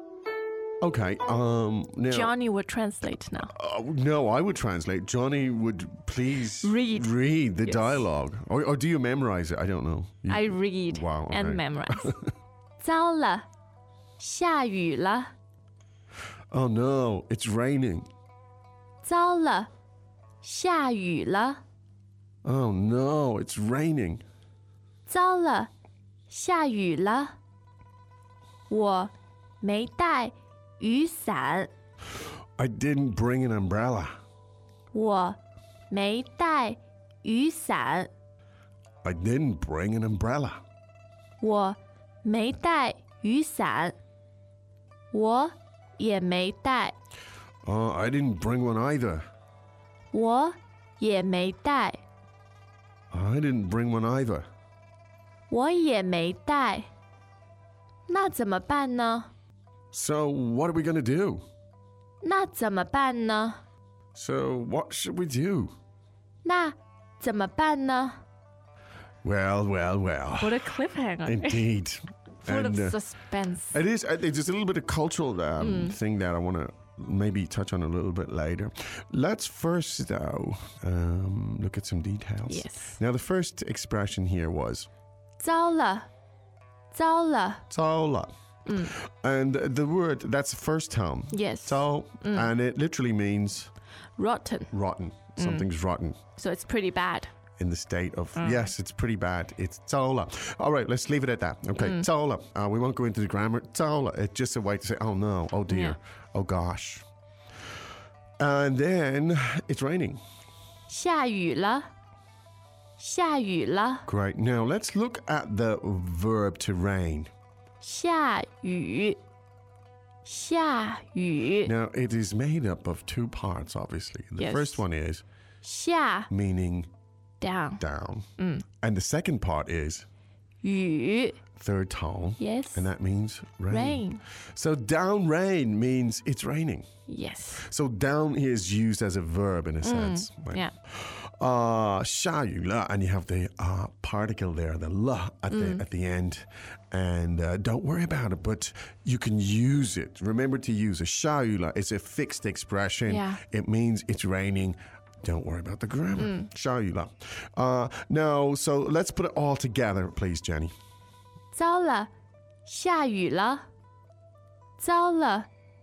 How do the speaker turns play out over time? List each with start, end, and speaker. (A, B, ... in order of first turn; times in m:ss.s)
0:00.8-0:02.3 A
0:02.1-0:03.5 B
0:03.4-0:12.3 A
0:06.6-0:08.0 B
0:10.3-0:12.1 B
0:12.8-0:13.5 B
0:14.2-0:15.3 B
0:16.5-0:18.1 A
0:19.0-0:19.7 B
0:20.4-0:21.6 B
0:22.4-0:24.2 A
0:25.1-0:25.7 B
0:26.3-0:27.4 B
0:28.7-0:31.7 B
0:32.6-0:34.2 A
0:34.9-0:35.4 B
0:35.9-0:38.1 B
0:39.0-0:40.6 A
0:41.4-0:44.0 B
0:45.1-0:47.0 B
0:47.6-0:49.3 A
0:50.1-0:52.0 B
0:53.1-0:54.5 A
0:55.5-0:56.9 B
0:58.1-0:59.3 B
0:59.9-1:01.4 A
1:02.2-1:03.6 B
1:04.2-1:05.7 A
1:06.4-1:08.2 B
1:09.2-1:13.0 A
1:10.4-1:11.6 B
1:12.4-1:13.8 B
1:13.7-1:24.9 A
1:15.6-1:16.0 B
1:22.5-1:23.0 B
1:25.4-1:26.1 B
1:26.9-1:27.6 B
1:27.7-1:33.7 A
1:28.7-1:28.9 B
1:31.3-1:32.5 B
1:34.2-1:34.7 B
1:34.7-1:36.2 A
1:35.4-1:35.7 B
1:36.4-1:37.3 B
1:37.6-1:47.0 A
1:38.4-1:38.7 B
1:41.8-1:42.1 B
1:45.7-1:46.0 B
1:48.4-1:50.2 A
1:50.9-1:51.9 B
1:53.0-1:54.0 B
1:54.1-1:57.3 A
1:57.8-1:59.2 B
2:00.2-2:01.7 B
2:01.6-2:05.2 A
2:04.4-2:04.8 B
2:05.6-2:06.3 B
2:06.3-2:06.9 A
2:07.4-2:07.8 B
2:07.8-2:08.3 A
2:08.4-2:08.6 B
2:08.8-2:10.1 A
2:10.6-2:11.4 B
2:11.6-2:16.9 A
2:12.4-2:12.9 B
2:13.7-2:14.2 B
2:17.1-2:17.6 B
2:17.6-2:40.7 A
2:19.8-2:20.7 B
2:25.5-2:25.8 B
2:33.1-2:33.4 B
2:36.2-2:36.5 B
2:41.5-2:42.1 B
2:42.6-2:43.6 B
2:44.8-2:45.5 B